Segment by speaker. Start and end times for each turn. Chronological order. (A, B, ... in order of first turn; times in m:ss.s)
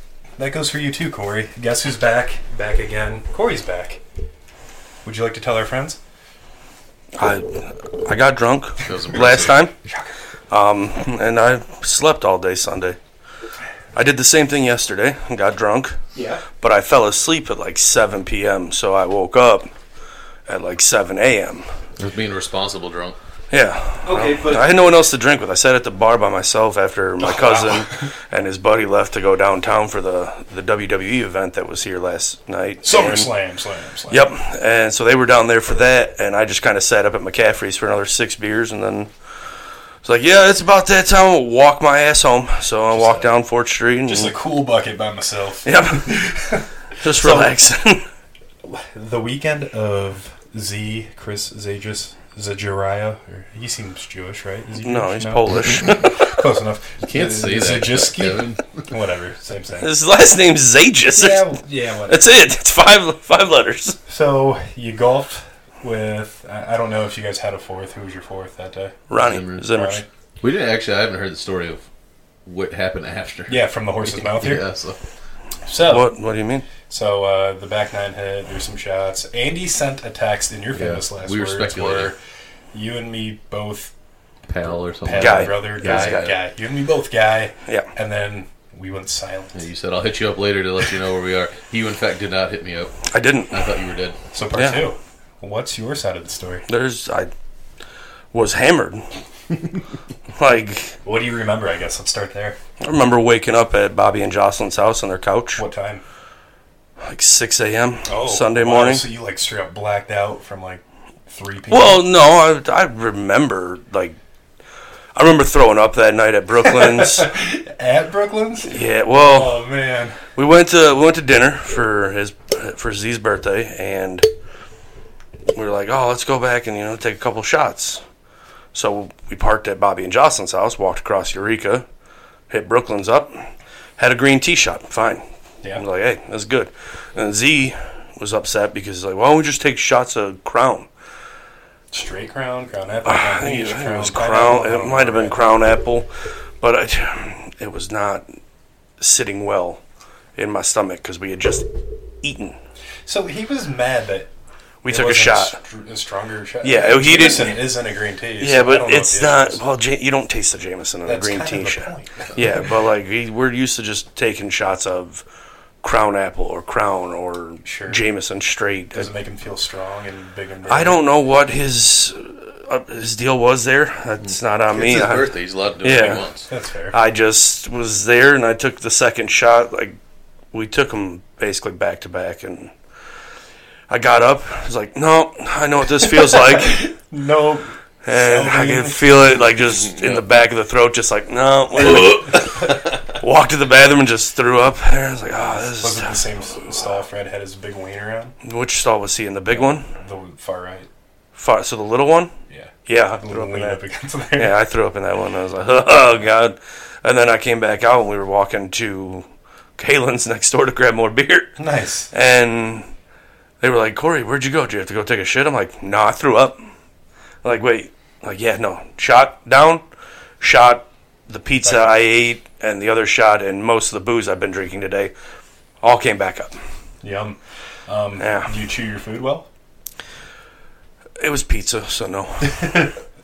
0:00.4-0:04.0 A
0:05.0-0:06.0 A
0:07.1-0:09.7 B
0:08.8-0:09.6 C
0:09.8-0:10.1 A
0:10.5-0:13.0 B
0:13.9-0:16.0 B
0:16.1-0:16.4 A
0:16.6-0:19.7 B
0:20.5-0:21.7 B
0:22.0-0:23.2 C
0:23.5-0:33.3 B
0:24.0-0:24.8 A
0:27.2-0:28.0 A
0:32.8-0:34.3 A
0:34.1-0:39.1 B
0:40.0-0:44.4 B
0:42.9-0:43.3 A
0:44.1-0:47.5 A
0:45.6-0:46.2 B
0:47.0-0:48.1 B
0:48.6-0:59.9 A
0:54.8-0:56.1 B
0:55.8-0:56.1 C
0:57.0-0:58.8 C
0:59.8-1:04.0 B
1:01.1-1:02.3 A
1:04.1-1:09.0 A
1:09.1-1:10.0 B
1:09.2-1:09.7 C
1:09.7-1:10.0 A
1:10.4-1:11.8 C
1:12.4-1:15.0 C
1:13.5-1:14.6 A
1:15.6-1:16.1 A
1:15.8-1:16.6 B
1:16.9-1:22.2 A
1:20.7-1:22.1 C
1:22.7-1:23.9 A
1:24.5-1:26.4 C
1:25.0-1:29.6 A
1:25.1-1:26.4 B
1:29.5-1:34.2 C
1:33.1-1:33.6 B
1:34.3-1:36.6 A
1:34.5-1:34.9 B
1:36.7-1:37.3 B
1:38.3-1:39.2 B
1:40.4-1:41.0 B
1:41.0-1:42.6 A
1:42.8-1:45.6 B
1:45.5-1:46.0 A
1:47.0-1:49.0 B
1:48.0-1:52.0 A
1:51.7-1:54.2 B
1:55.1-1:57.3 B
1:56.6-2:00.2 A
1:58.6-1:59.6 B
2:00.3-2:04.3 B
2:05.5-2:08.0 B
2:08.7-2:11.8 B
2:12.5-2:20.9 B
2:21.9-2:25.4 A
2:23.0-2:28.3 B
2:29.0-2:29.8 B
2:30.4-2:32.6 B
2:33.0-2:34.3 A
2:34.8-2:35.6 B
2:34.8-2:39.6 A
2:36.6-2:37.8 B
2:38.4-2:45.2 B
2:41.0-2:42.7 A
2:45.8-2:49.1 B
2:47.6-2:48.0 A
2:48.9-2:51.0 A
2:50.7-2:55.3 B
2:54.2-2:56.4 C
2:55.8-2:56.3 B
2:56.0-2:57.0 A
2:56.9-3:00.0 B
3:00.5-3:02.7 B
3:03.9-3:06.9 B
3:06.1-3:09.4 A
3:08.0-3:16.2 B
3:11.8-3:12.8 A
3:15.7-3:18.3 A
3:18.4-3:19.9 B
3:19.5-3:20.9 A
3:21.3-3:22.3 B
3:22.5-3:24.5 A
3:22.8-3:23.8 B
3:24.4-3:31.6 B
3:31.6-3:32.1 A
3:32.1-3:32.9 B
3:33.6-3:36.6 B
3:37.4-3:39.8 B
3:40.4-3:45.1 B
3:41.6-3:41.9 A
3:45.8-3:46.6 B
3:47.0-3:49.5 A
3:48.2-3:48.5 B
3:51.2-3:52.8 B